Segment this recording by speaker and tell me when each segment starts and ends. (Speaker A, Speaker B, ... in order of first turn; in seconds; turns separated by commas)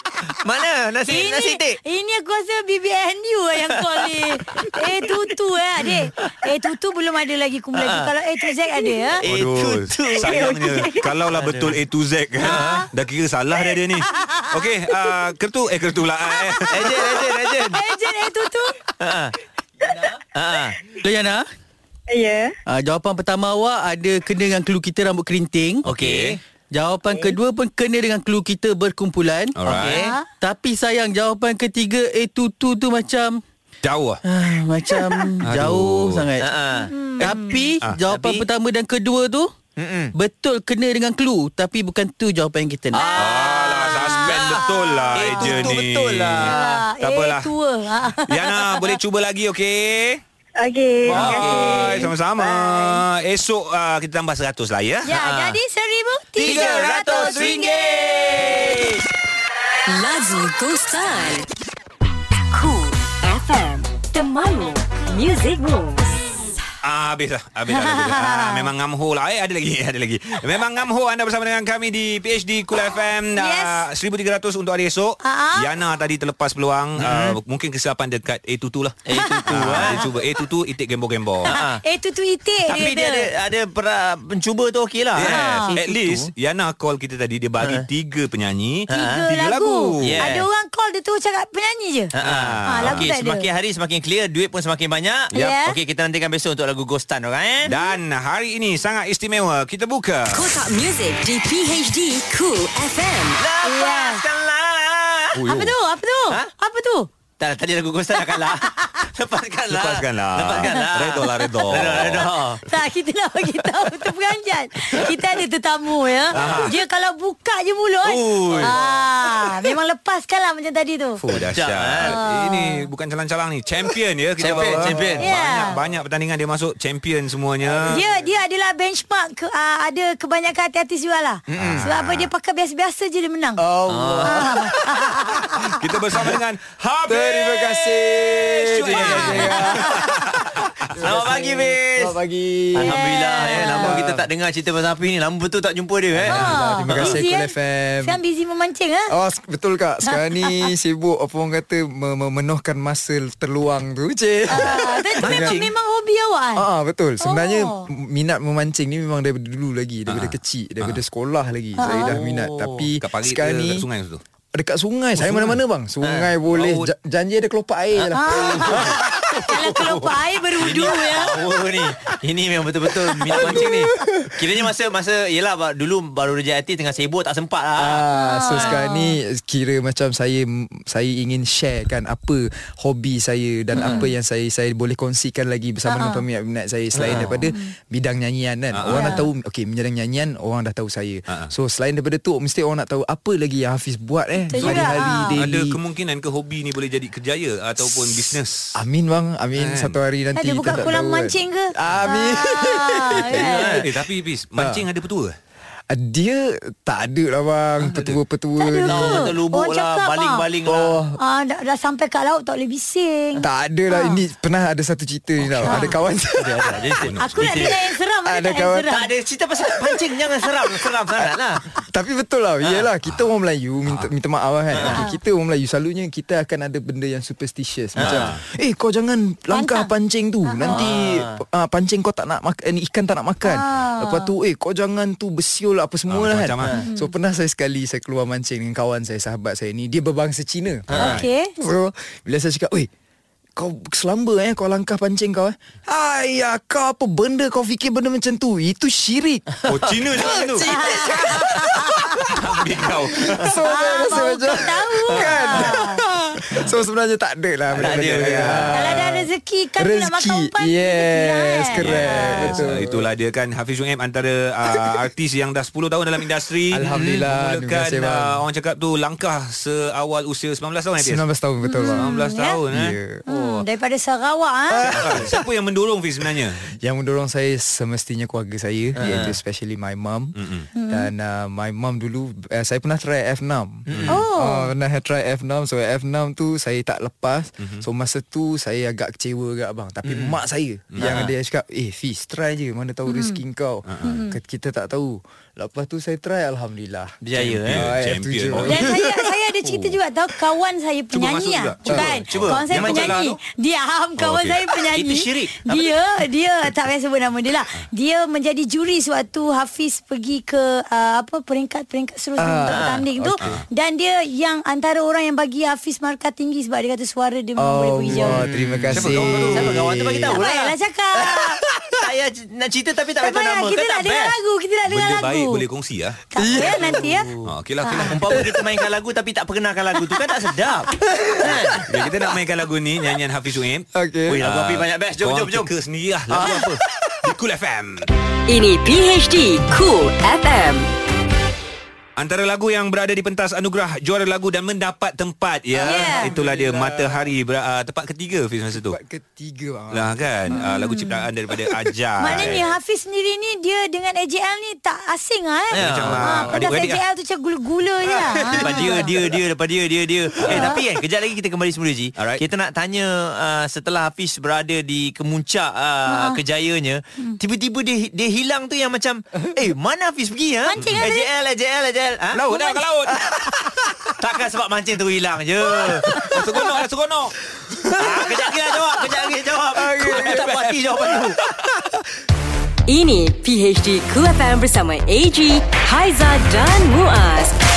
Speaker A: 0.2-1.8, Speaker B: 1.1-9.2, Speaker A: 3.6-5.1, Speaker A: 5.8-6.3, Speaker A: 7.7-8.1, Speaker A: 9.0-10.3, Speaker C: 9.2-17.2, Speaker D: 10.2-11.1, Speaker A: 11.3-11.8, Speaker A: 12.4-12.9, Speaker B: 12.4-12.9, Speaker B: 14.0-14.5, Speaker B: 16.3-18.8, Speaker A: 16.7-17.8, Speaker A: 19.0-19.3, Speaker A: 20.3-20.8, Speaker E: 21.0-21.4, Speaker D: 22.1-22.5, Speaker E: 22.7-25.8, Speaker C: 25.8-26.4, Speaker A: 25.8-26.4, Speaker E: 26.7-29.6, Speaker C: 29.6-30.0, Speaker A: 29.6-30.1, Speaker B: 29.9-30.3, Speaker E: 30.3-33.4, Speaker C: 33.8-34.2, Speaker E: 34.2-36.5, Speaker C: 35.4-36.3, Speaker A: 36.4-37.5, Speaker B: 36.9-37.6, Speaker E: 37.2-39.5, Speaker A: 38.1-38.4, Speaker A: 39.8-40.1, Speaker E: 40.1-43.0, Speaker A: 42.9-46.8, Speaker B: 42.9-45.8, Speaker C: 43.1-47.5, Speaker B: 46.4-48.9, Speaker C: 48.2-50.2, Speaker D: 50.6-53.0, Speaker A: 51.1-52.1, Speaker C: 51.1-55.2, Speaker B: 55.0-57.8, Speaker A: 55.1-55.6, Speaker A: 56.4-59.0, Speaker C: 56.4-57.7, Speaker F: 59.9-61.5, Speaker F: 62.5-66.1, Speaker C: 66.8-81.5, Speaker B: 67.7-68.7, Speaker B: 73.3-73.8, Speaker B: 75.2-75.7, Speaker A: 77.0-77.4, Speaker A: 79.0-80.1, Speaker B: 79.1-80.0, Speaker A: 81.4-81.8, Speaker B: 81.5-83.3, Speaker A: 82.6-86.3, Speaker C: 85.1-90.2, Speaker B: 85.2-85.7, Speaker A: 88.9-89.2, Speaker B: 88.9-92.1, Speaker A: 90.0-90.5, Speaker A: 92.1-97.8, Speaker C: 92.2-93.0, Speaker B: 92.7-93.5, Speaker B: 95.3-95.8, Speaker C: 97.6-100.5, Speaker F: 100.3-103.4, Speaker A: 103.4-105.4, Speaker B: 103.6-104.2, Speaker C: 105.3-105.7, Speaker B: 105.5-107.1, Speaker A: 107.4-112.6, Speaker B: 108.2-108.8, Speaker C: 109.7-112.3, Speaker B: 112.6-121.2, Speaker A: 116.3-116.7, Speaker C: 116.3-116.7, Speaker A: 118.0-118.8, Speaker C: 121.2-128.0, Speaker A: 121.3-122.1, Speaker B: 122.0-122.8, Speaker A: 124.4-125.2, Speaker G: 124.5-125.2, Speaker B: 125.2-125.8, Speaker G: 127.6-128.0, Speaker B: 127.9-133.6, Speaker A: 131.5-131.8, Speaker C: 131.6-132.3, Speaker G: 133.6-135.0, Speaker A: 133.9-134.7, Speaker B: 134.2-135.4, Speaker C: 135.8-140.8, Speaker G: 137.1-144.3, Speaker A: 141.0-142.1, Speaker A: 142.7-147.1, Speaker B: 142.8-143.9, Speaker G: 146.1-148.2, Speaker B: 146.3-149.1, Speaker G: 149.1-155.6, Speaker B: 150.1-150.5, Speaker B: 154.5-156.7, Speaker A: 155.2-155.7, Speaker G: 156.6-163.8, Speaker B: 157.2-157.8, Speaker C: 160.1-161.0, Speaker B: 161.8-162.1, Speaker A: 161.8-162.9, Speaker C: 163.0-164.2, Speaker G: 164.5-169.6, Speaker C: 165.2-165.6, Speaker A: 166.0-166.3, Speaker C: 166.5-166.9, Speaker B: 168.1-171.4, Speaker A: 168.5-169.9, Speaker A: 170.5-178.0, Speaker G: 172.9-174.7, Speaker G: 177.8-195.8, Speaker B: 178.1-179.2, Speaker A: 183.7-184.0, Speaker B: 183.8-184.1, Speaker B: 185.9-186.2, Speaker A: 186.9-187.4, Speaker C: 188.7-189.1, Speaker B: 188.9-189.2, Speaker B: 194.4-195.3, Speaker C: 194.6-198.7, Speaker G: 198.7-203.9, Speaker C: 199.6-200.0, Speaker B: 200.3-203.7, Speaker A: 203.4-203.8, Speaker C: 203.6-205.3, Speaker G: 204.6-204.8, Speaker G: 205.9-209.3, Speaker B: 208.6-210.4, Speaker A: 208.8-211.0, Speaker G: 210.7-211.2, Speaker B: 211.2-214.2, Speaker G: 213.4-217.0, Speaker A: 215.4-217.8, Speaker B: 215.6-215.9, Speaker C: 217.0-217.6, Speaker B: 217.2-219.1, Speaker G: 218.2-219.0, Speaker A: 218.9-221.6, Speaker G: 220.8-242.9, Speaker A: 224.7-225.0, Speaker B: 224.9-225.2, Speaker A: 228.0-228.3, Speaker C: 228.0-228.4, Speaker B: 229.5-229.9, Speaker B: 230.4-230.8, Speaker A: 230.6-231.4, Speaker B: 233.4-234.3, Speaker C: 236.1-236.7, Speaker B: 236.8-237.1, Speaker C: 240.9-241.2, Speaker A: 240.9-241.2, Speaker B: 241.0-241.5, Speaker G: 243.6-249.4, Speaker C: 249.7-250.7, Speaker A: 250.2-251.4, Speaker G: 250.2-252.4, Speaker B: 250.7-252.1, Speaker C: 252.3-253.5, Speaker G: 253.1-263.1, Speaker B: 253.6-256.0, Speaker A: 255.1-255.7, Speaker C: 257.7-258.7, Speaker A: 257.7-258.7, Speaker B: 258.7-262.6, Speaker C: 261.8-271.2, Speaker G: 266.7-268.4, Speaker A: 266.9-267.2, Speaker G: 271.0-272.1, Speaker B: 271.6-272.6, Speaker C: 271.9-272.9, Speaker G: 272.7-273.2, Speaker B: 273.3-274.9, Speaker G: 274.7-275.4, Speaker C: 274.9-276.6, Speaker A: 274.9-275.3, Speaker G: 276.7-280.3, Speaker A: 279.0-279.3, Speaker C: 280.4-280.7, Speaker B: 280.8-281.1, Speaker G: 280.9-299.1, Speaker A: 283.9-284.2, Speaker B: 284.1-284.7, Speaker C: 290.9-291.3, Speaker A: 291.0-291.3, Speaker B: 293.1-293.4, Speaker C: 293.9-294.1, Speaker B: 294.0-294.4, Speaker A: 297.2-297.9, Speaker C: 297.3-298.9, Speaker B: 298.6-318.4, Speaker C: 301.1-303.2, Speaker G: 301.9-302.2, Speaker A: 301.9-303.4, Speaker C: 304.2-304.6, Speaker A: 304.9-305.9, Speaker G: 312.4-313.5, Speaker A: 312.7-313.0, Speaker G: 317.6-320.4, Speaker A: 318.1-324.3, Speaker C: 318.9-319.9, Speaker B: 320.3-321.6, Speaker B: 323.2-325.6, Speaker C: 324.9-326.2, Speaker B: 326.3-327.3, Speaker G: 326.4-327.1, Speaker A: 326.6-327.5, Speaker C: 327.4-328.5, Speaker B: 327.8-328.1, Speaker A: 328.1-331.8, Speaker G: 328.3-328.6, Speaker C: 331.8-333.9, Speaker G: 333.9-334.4, Speaker A: 334.3-335.7, Speaker C: 334.4-338.1, Speaker G: 336.3-336.8, Speaker F: 338.5-340.9, Speaker C: 342.2-349.0, Speaker G: 345.7-347.3, Speaker B: 345.8-346.3, Speaker G: 348.7-350.9, Speaker C: 349.9-352.6, Speaker B: 350.5-351.2, Speaker G: 351.5-352.6, Speaker B: 352.2-359.1, Speaker A: 355.7-356.5, Speaker C: 355.7-357.0, Speaker A: 358.2-372.4, Speaker G: 358.5-359.0, Speaker B: 360.5-360.8, Speaker C: 362.2-362.4, Speaker B: 366.1-366.4, Speaker B: 370.7-371.3, Speaker C: 372.3-373.3, Speaker B: 372.5-372.8, Speaker A: 374.2-376.2, Speaker G: 376.1-376.4, Speaker C: 376.2-377.4, Speaker G: 377.6-378.3, Speaker A: 377.9-381.4, Speaker G: 379.7-380.7, Speaker C: 380.0-380.7, Speaker F: 382.9-387.6